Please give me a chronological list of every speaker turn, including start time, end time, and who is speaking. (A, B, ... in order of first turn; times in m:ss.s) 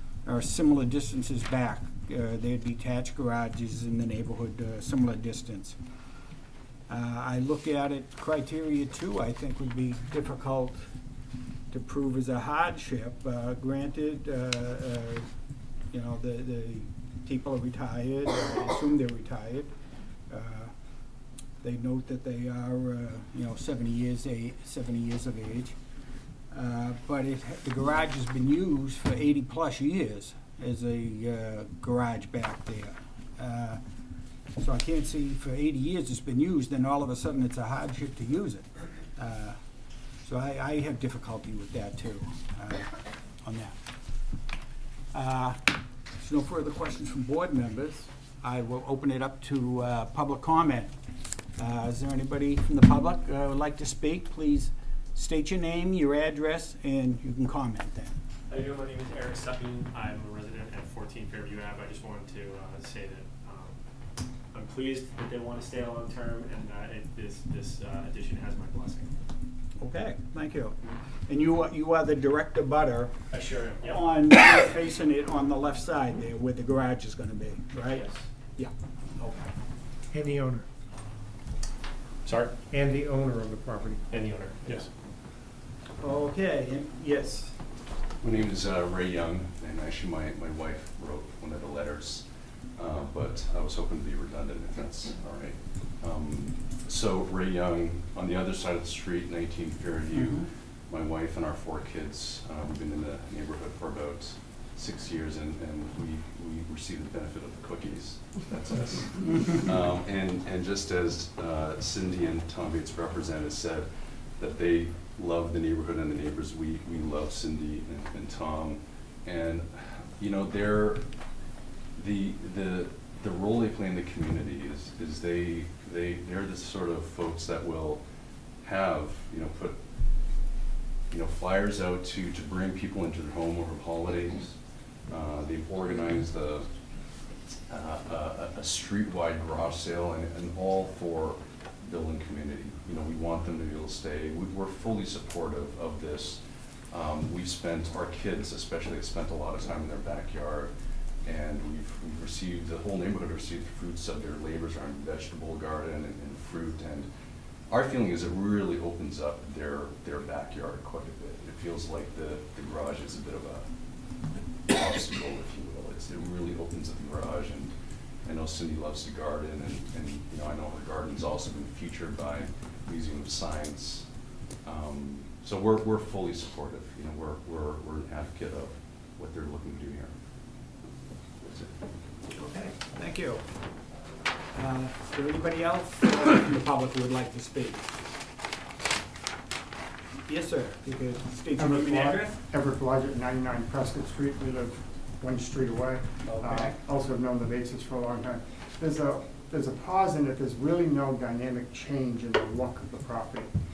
0:00.2-0:05.8 A
0:06.9-0:10.9 A
0:11.7-0:15.3 A
0:15.9-0:19.7 A
0:20.3-0:20.7 A
0:21.6-0:25.8 A
0:26.5-0:33.8 A
0:34.6-0:39.6 A
0:40.2-0:43.8 A
0:45.1-0:45.6 A
0:46.2-0:50.9 A
0:51.6-0:58.1 A
0:58.5-1:03.8 B
1:04.5-1:09.2 B
1:09.8-1:13.1 A
1:13.3-1:14.0 B
1:13.8-1:18.1 A
1:17.8-1:18.2 B
1:19.2-1:19.4 B
1:20.1-1:20.6 C
1:22.3-1:22.5 B
1:22.7-1:24.0 C
1:24.1-1:24.9 B
1:26.0-1:27.5 A
1:28.2-2:09.8 D
1:40.1-1:40.5 A
2:11.1-2:37.1 D
2:37.6-3:00.1 D
3:01.4-3:01.7 D
3:02.4-3:03.4 A
3:04.6-3:07.8 A
3:10.3-3:12.4 A
3:11.6-3:23.5 E
3:16.3-3:16.7 A